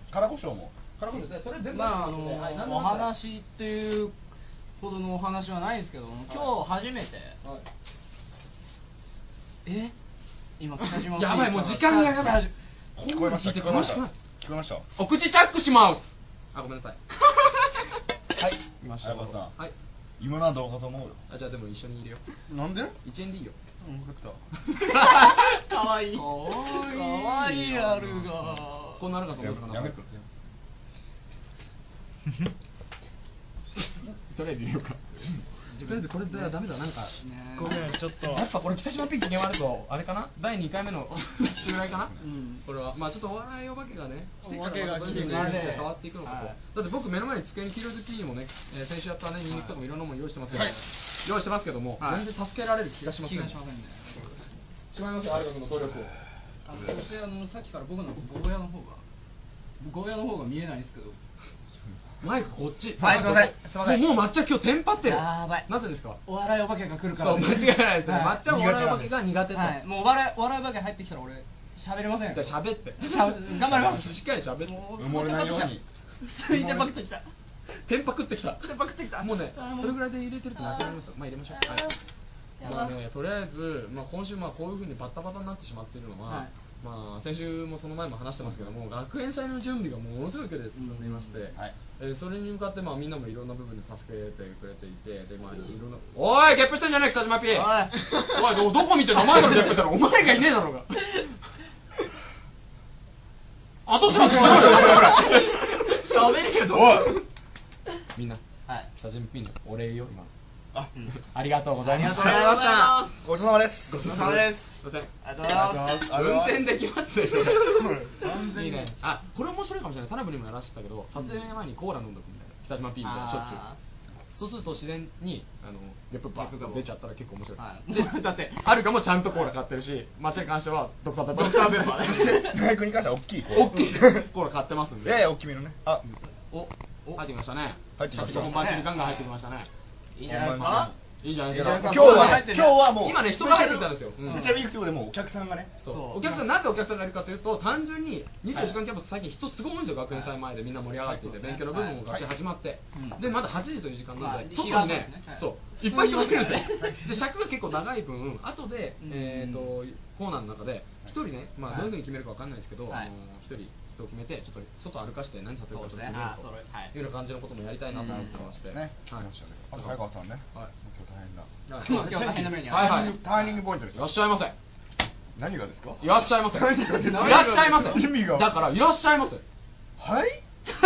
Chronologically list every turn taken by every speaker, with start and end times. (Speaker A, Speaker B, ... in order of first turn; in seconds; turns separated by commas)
Speaker A: 0.1-0.7, Speaker B: 1.0-3.1, Speaker C: 1.7-4.1, Speaker C: 4.8-7.4, Speaker B: 6.3-6.5, Speaker B: 9.7-9.9, Speaker C: 10.6-12.5, Speaker B: 10.8-14.1, Speaker A: 13.0-14.8, Speaker B: 15.0-17.0, Speaker A: 18.4-19.5, Speaker B: 18.8-19.7, Speaker A: 20.2-21.2, Speaker B: 21.3-22.2, Speaker A: 22.5-23.0, Speaker B: 23.0-23.6, Speaker A: 23.8-24.4, Speaker B: 24.7-25.6, Speaker C: 24.9-29.0, Speaker B: 26.1-30.1, Speaker A: 29.3-30.0, Speaker B: 33.8-37.2, Speaker C: 35.7-36.5, Speaker C: 37.2-37.9, Speaker D: 37.6-38.5, Speaker B: 38.2-53.6, Speaker C: 42.2-42.6, Speaker D: 44.4-45.8, Speaker C: 45.0-46.6, Speaker C: 50.5-50.8, Speaker C: 52.0-52.3, Speaker C: 53.2-54.2, Speaker B: 54.9-56.1, Speaker C: 56.7-59.0, Speaker C: 59.8-61.2, Speaker B: 62.2-66.2, Speaker C: 63.0-64.0, Speaker C: 65.0-65.7, Speaker C: 66.2-68.4, Speaker B: 67.1-69.8, Speaker A: 68.4-69.1, Speaker C: 69.5-77.2, Speaker B: 72.3-74.9, Speaker A: 75.0-75.8, Speaker A: 76.5-76.9, Speaker B: 77.8-81.9, Speaker C: 78.6-80.0, Speaker C: 80.6-80.9, Speaker C: 81.6-81.9, Speaker B: 82.6-101.3, Speaker C: 82.6-82.9, Speaker C: 90.8-91.5, Speaker C: 97.5-98.1, Speaker B: 103.9-105.7, Speaker C: 104.1-107.2, Speaker A: 104.4-105.3, Speaker A: 106.7-107.1, Speaker B: 108.1-108.4, Speaker B: 109.0-110.3, Speaker B: 111.3-113.1, Speaker C: 111.8-113.2, Speaker A: 113.2-114.2, Speaker B: 113.9-115.1, Speaker C: 114.0-114.6, Speaker C: 115.2-116.0, Speaker A: 115.5-116.7, Speaker B: 115.8-123.6, Speaker A: 117.4-118.3, Speaker C: 118.2-118.9, Speaker C: 123.0-123.8, Speaker B: 124.3-132.4, Speaker C: 126.3-126.8, Speaker C: 127.6-128.7, Speaker C: 131.3-132.6, Speaker A: 132.0-134.3, Speaker B: 133.5-135.2, Speaker A: 135.0-136.0, Speaker B: 136.5-139.7, Speaker A: 138.0-138.6, Speaker C: 138.2-139.2, Speaker C: 140.2-140.9, Speaker A: 140.2-140.9, Speaker B: 141.2-144.7, Speaker A: 141.5-145.7, Speaker C: 141.5-143.4, Speaker C: 144.3-144.6, Speaker B: 145.8-170.0, Speaker C: 145.9-146.4, Speaker C: 151.0-152.0, Speaker C: 152.9-153.2, Speaker C: 154.2-157.0, Speaker C: 159.0-159.7, Speaker C: 161.7-161.9, Speaker C: 165.7-166.9, Speaker C: 167.9-168.4, Speaker A: 168.0-174.2, Speaker B: 171.7-173.2, Speaker C: 171.7-173.1, Speaker B: 173.9-174.6, Speaker A: 175.3-178.6, Speaker B: 176.0-179.4, Speaker C: 177.1-178.0, Speaker A: 180.0-180.4